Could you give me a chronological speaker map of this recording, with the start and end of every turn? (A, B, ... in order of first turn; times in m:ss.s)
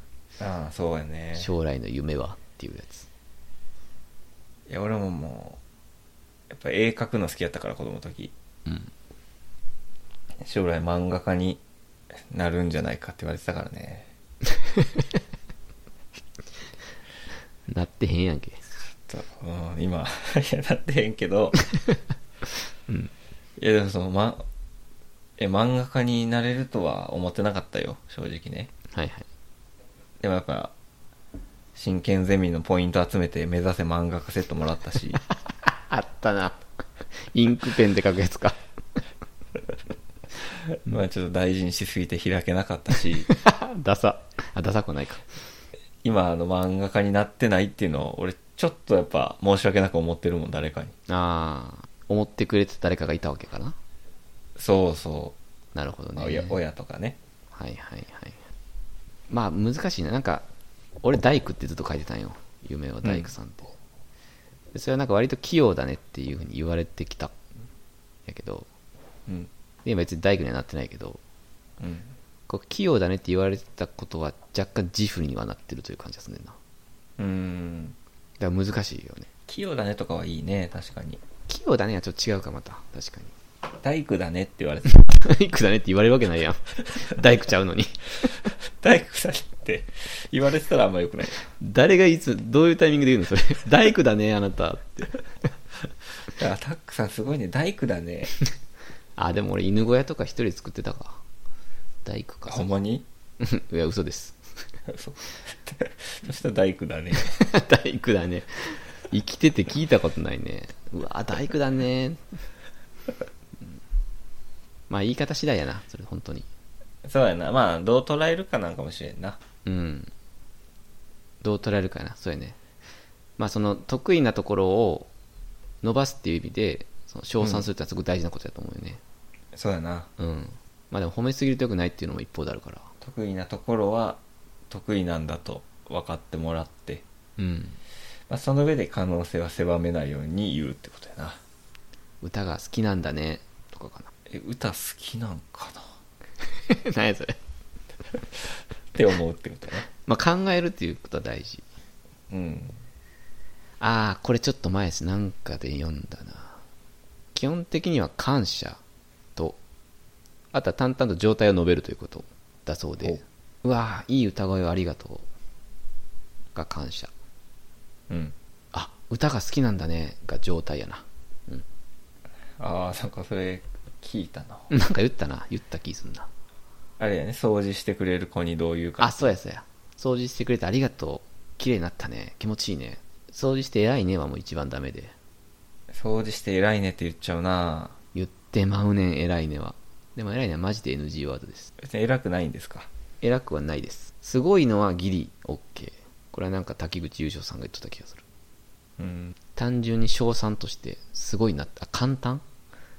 0:00.4-0:01.5 A
0:01.4-0:03.1 B
0:04.7-0:05.6 A
0:06.5-0:08.3 A
0:08.7-0:08.9 B
0:10.4-0:11.6 A
0:12.3-0:14.1 A
0:17.7-0:18.6 B
0:19.1-0:21.6 A
0:23.6-0:24.5 A
0:25.4-0:28.7 A
0:28.9-0:29.2 B
0:30.2-0:30.7 A
0:31.8-0:35.2 A
0:35.6-0:36.6 B
0:37.2-0:38.6 B
0:40.7-0:43.3 A
0:43.3-0:45.3 B
0:46.0-0:50.9 A
0:51.1-0:53.8 B
0:54.6-0:55.4 A
0:55.7-0:56.6 B
0:56.2-0:57.2 A
0:57.5-0:58.4 B
0:59.3-1:00.5 B
1:01.0-1:03.7 B
1:03.0-1:03.3 A
1:04.7-1:07.3 B
1:08.3-1:08.7 B
1:09.8-1:11.2 B
1:11.8-1:12.1 A
1:12.5-1:16.6 B
1:17.2-1:18.0 A
1:18.4-1:19.3 B
1:19.5-1:21.2 A
1:21.5-1:23.3 B
1:23.8-1:25.0 A
1:24.9-1:28.5 B
1:28.7-1:31.4 A
1:31.6-1:35.1 B
1:36.2-1:38.4 A
1:39.2-1:41.2 B
1:42.0-1:42.7 B
1:42.5-1:43.0 A
1:43.4-1:44.4 B
1:44.9-1:47.4 A
1:47.2-1:52.2 B
1:54.9-1:56.5 B
1:57.0-1:59.4 A
1:59.6-2:00.1 B
2:01.4-2:02.6 B
2:03.4-2:05.1 B
2:05.8-2:09.0 B
2:07.4-2:07.7 A
2:09.5-2:10.1 A
2:10.2-2:12.9 B
2:13.0-2:17.0 A
2:17.4-2:17.8 B
2:18.3-2:21.4 A
2:22.2-2:24.1 B
2:24.3-2:25.9 A
2:26.4-2:27.4 B
2:28.9-2:29.9 A
2:30.0-2:31.6 B
2:32.3-2:32.8 A
2:33.8-2:36.6 B
2:37.3-2:38.8 B
2:40.5-2:45.3 B
2:46.6-2:47.1 B
2:48.1-2:48.4 A
2:48.7-2:51.6 B
2:52.6-2:54.7 A
2:54.7-2:56.3 B
2:57.0-2:59.3 A
2:59.0-3:05.1 B
3:05.9-3:08.0 A
3:08.1-3:11.7 B
3:11.8-3:12.9 A
3:13.2-3:18.2 B
3:19.0-3:19.3 A
3:19.6-3:22.4 B